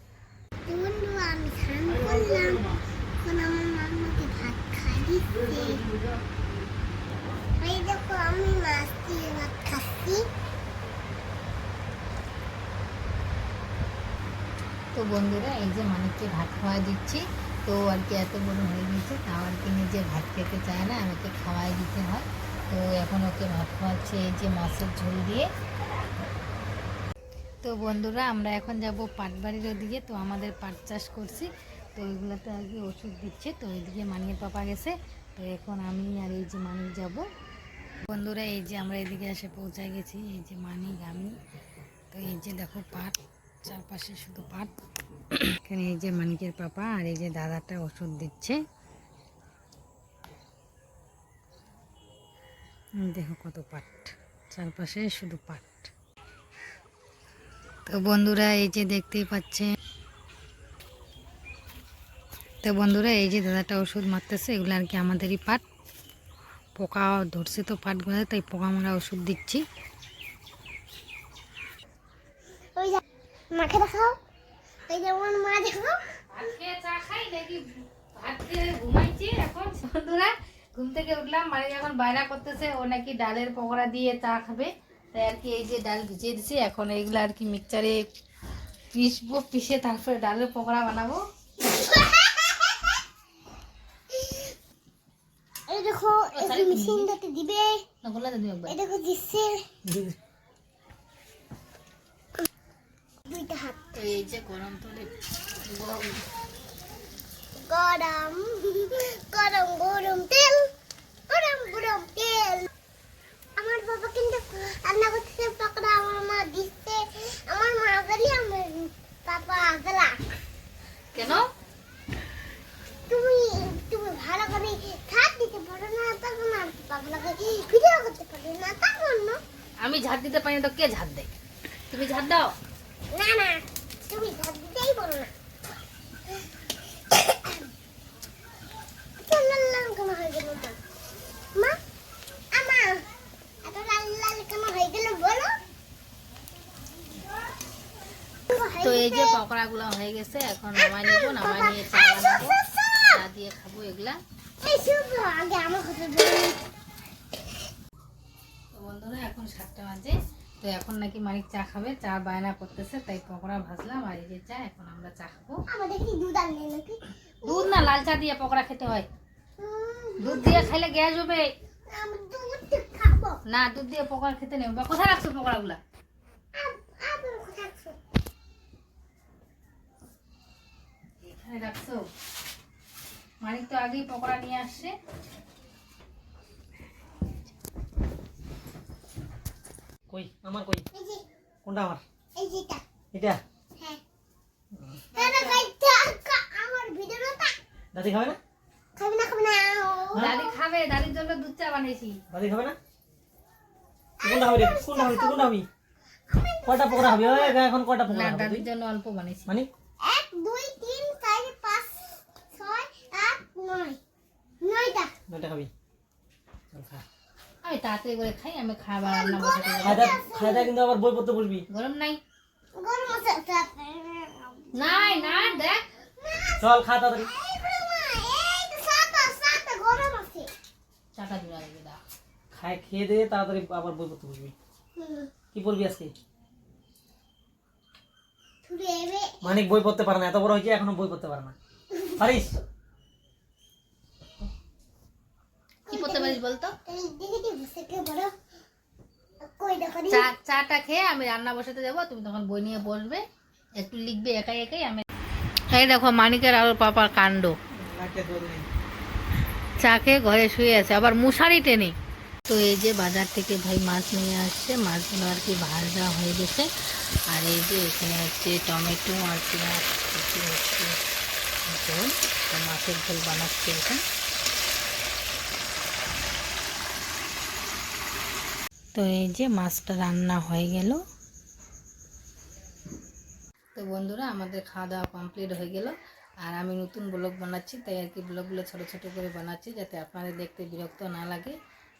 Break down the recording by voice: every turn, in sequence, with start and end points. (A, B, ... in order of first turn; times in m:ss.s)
0:00.7-0:02.7 A
0:03.2-0:05.8 A
0:07.6-0:10.2 A
0:14.9-0:25.4 B
0:27.6-0:37.2 B
0:38.1-0:41.3 B
0:42.1-0:44.7 B
0:45.4-0:48.6 B
0:53.0-0:55.9 B
0:57.9-0:59.7 B
1:02.6-1:05.6 B
1:06.8-1:09.6 B
1:13.5-1:14.2 A
1:14.9-1:16.0 A
1:16.3-1:28.0 B
1:28.9-1:31.2 B
1:31.8-1:32.7 A
1:34.1-1:34.5 A
1:35.7-1:37.8 A
1:36.3-1:37.1 B
1:38.0-1:38.8 B
1:38.7-1:39.6 A
1:39.9-1:40.1 C
1:43.3-1:43.8 A
1:43.9-1:45.1 B
1:45.6-1:46.3 B
1:47.6-1:50.6 A
1:51.3-1:52.7 A
1:53.6-2:00.1 A
2:01.1-2:01.4 B
2:03.1-2:09.4 A
2:09.8-2:11.3 B
2:11.9-2:12.5 B
2:13.1-2:15.3 A
2:17.1-2:17.6 A
2:19.3-2:20.8 A
2:22.5-2:23.0 A
2:23.6-2:25.5 A
2:28.5-2:29.4 A
2:28.8-2:32.6 B
2:30.8-2:33.2 A
2:33.1-2:34.2 B
2:34.6-2:36.6 A
2:38.7-2:45.6 B
2:45.7-2:47.9 A
2:47.4-2:49.0 B
2:49.6-2:50.7 A
2:50.2-2:51.4 B
2:51.9-2:53.4 A
2:53.5-2:55.8 B
2:56.6-2:58.0 A
3:01.2-3:02.0 B
3:03.4-3:04.9 B
3:10.1-3:10.8 C
3:11.0-3:11.2 A
3:11.6-3:12.0 C
3:12.4-3:12.8 A
3:13.1-3:13.4 C
3:15.1-3:15.6 B
3:15.2-3:17.5 A
3:17.9-3:18.4 C
3:19.0-3:20.5 A
3:20.1-3:22.2 B
3:22.3-3:22.8 C
3:24.2-3:25.6 C
3:24.2-3:25.5 A
3:26.3-3:27.6 A
3:26.6-3:28.6 C
3:28.1-3:29.5 B
3:30.0-3:34.0 A
3:34.6-3:35.0 A
3:35.3-3:35.7 C
3:36.7-3:37.0 C
3:37.6-3:40.1 B
3:39.0-3:40.7 A
3:39.8-3:41.6 C
3:41.7-3:42.2 B
3:42.8-3:45.6 A
3:44.7-3:45.8 B
3:46.2-3:50.5 A
3:46.6-3:47.3 C
3:51.1-3:52.0 B
3:52.5-3:54.5 C
3:55.0-3:55.3 A
3:55.5-3:56.1 C
3:58.6-3:59.3 A
3:59.4-4:01.5 C
4:02.2-4:02.5 C
4:05.9-4:08.3 A
4:05.9-4:06.7 B
4:09.4-4:10.3 A
4:10.1-4:13.2 B
4:13.8-4:15.0 B
4:15.7-4:17.5 B
4:17.7-4:18.7 C
4:19.8-4:21.9 B
4:22.5-4:26.7 B
4:27.3-4:31.0 B
4:31.6-4:34.0 B
4:38.9-4:41.0 B
4:43.7-4:51.5 B